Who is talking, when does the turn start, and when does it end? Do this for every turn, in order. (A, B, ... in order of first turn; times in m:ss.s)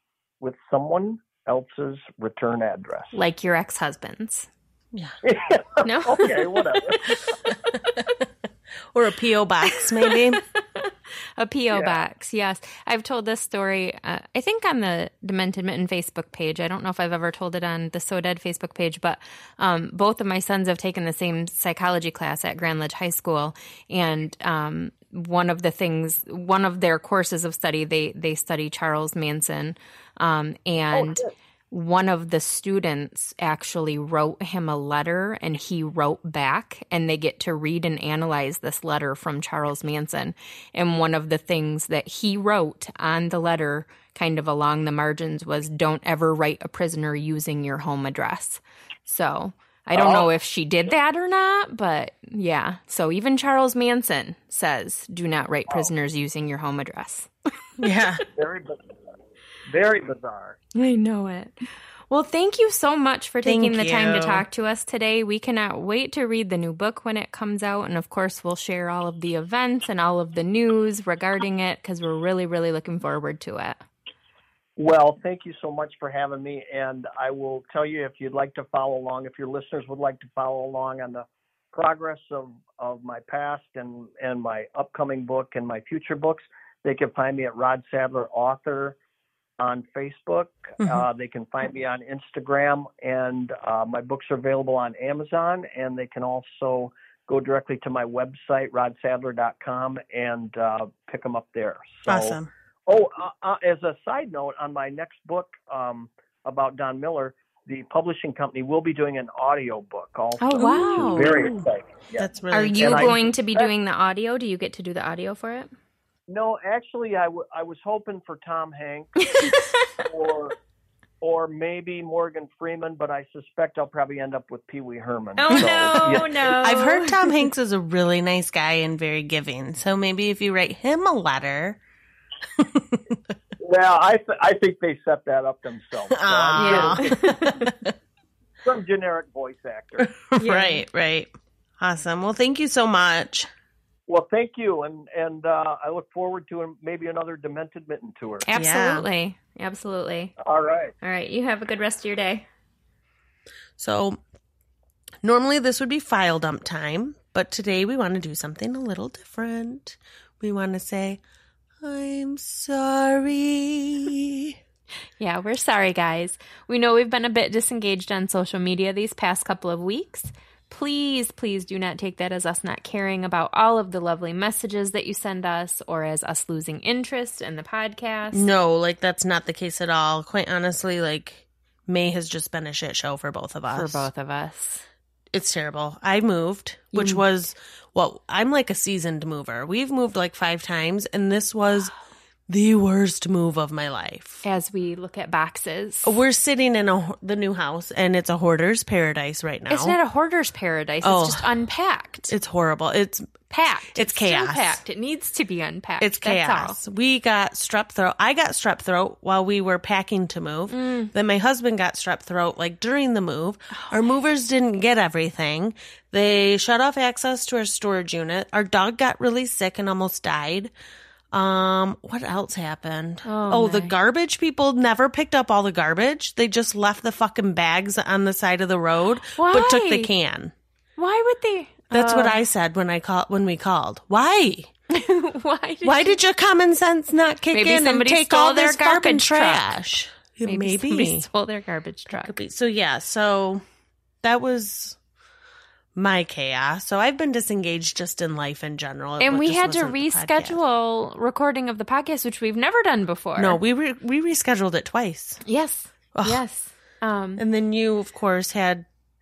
0:00.4-0:03.1 A
0:03.1-0:04.5 B
0:05.2-0:07.2 A
0:05.8-0:07.2 B
0:07.7-0:08.1 B
0:08.9-0:10.4 C
0:09.8-0:57.3 B
0:11.7-0:12.0 A
0:49.9-0:50.3 A
0:57.8-0:58.2 C
0:58.3-0:58.8 A
0:59.6-1:00.6 A
1:00.7-1:13.8 B
1:03.4-1:04.4 C
1:14.8-1:29.0 A
1:29.6-1:52.3 A
1:30.8-1:31.0 C
1:42.0-1:42.5 C
1:50.4-1:51.5 B
1:50.6-1:51.6 C
1:52.2-1:53.2 C
1:52.5-1:55.7 B
1:52.8-1:53.7 A
1:56.3-1:59.2 A
1:59.2-1:59.9 B
2:00.0-2:00.6 A
2:01.2-2:06.4 A
2:05.4-2:07.2 B
2:05.6-2:11.8 C
2:12.6-2:13.1 C
2:13.6-2:17.4 A
2:16.1-2:17.9 C
2:16.6-2:17.7 B
2:18.6-2:20.2 A
2:20.2-2:23.5 C
2:20.4-2:20.8 B
2:24.1-2:28.5 A
2:28.4-2:30.3 B
2:28.5-2:29.0 C
2:30.4-2:30.9 A
2:31.0-2:32.4 B
2:33.8-2:34.2 C
2:35.2-2:41.2 C
2:41.8-2:44.6 C
2:45.2-2:58.5 B
2:58.3-3:04.1 C
3:03.7-3:04.8 B
3:05.3-3:11.9 C
3:06.9-3:07.2 B
3:12.5-3:14.4 C
3:14.4-3:16.2 B
3:16.0-3:20.0 C
3:19.7-3:22.3 B
3:21.0-3:21.5 C
3:22.3-3:23.4 C
3:23.5-3:26.8 B
3:23.9-3:24.8 C
3:26.0-3:40.7 C
3:30.7-3:31.1 B
3:33.7-3:34.0 B
3:41.3-3:50.5 C
3:43.2-3:44.0 B
3:49.4-3:50.1 B
3:51.0-3:52.4 B
3:51.9-3:54.7 C
3:54.9-3:56.2 B
3:55.8-4:01.3 C
3:57.5-3:59.7 B
4:00.4-4:02.4 B
4:02.2-4:03.6 C
4:04.2-4:05.0 C
4:06.0-4:10.6 C
4:09.2-4:13.6 B
4:13.4-4:15.4 C
4:15.4-4:17.4 B
4:16.1-4:16.4 C
4:17.4-4:18.9 C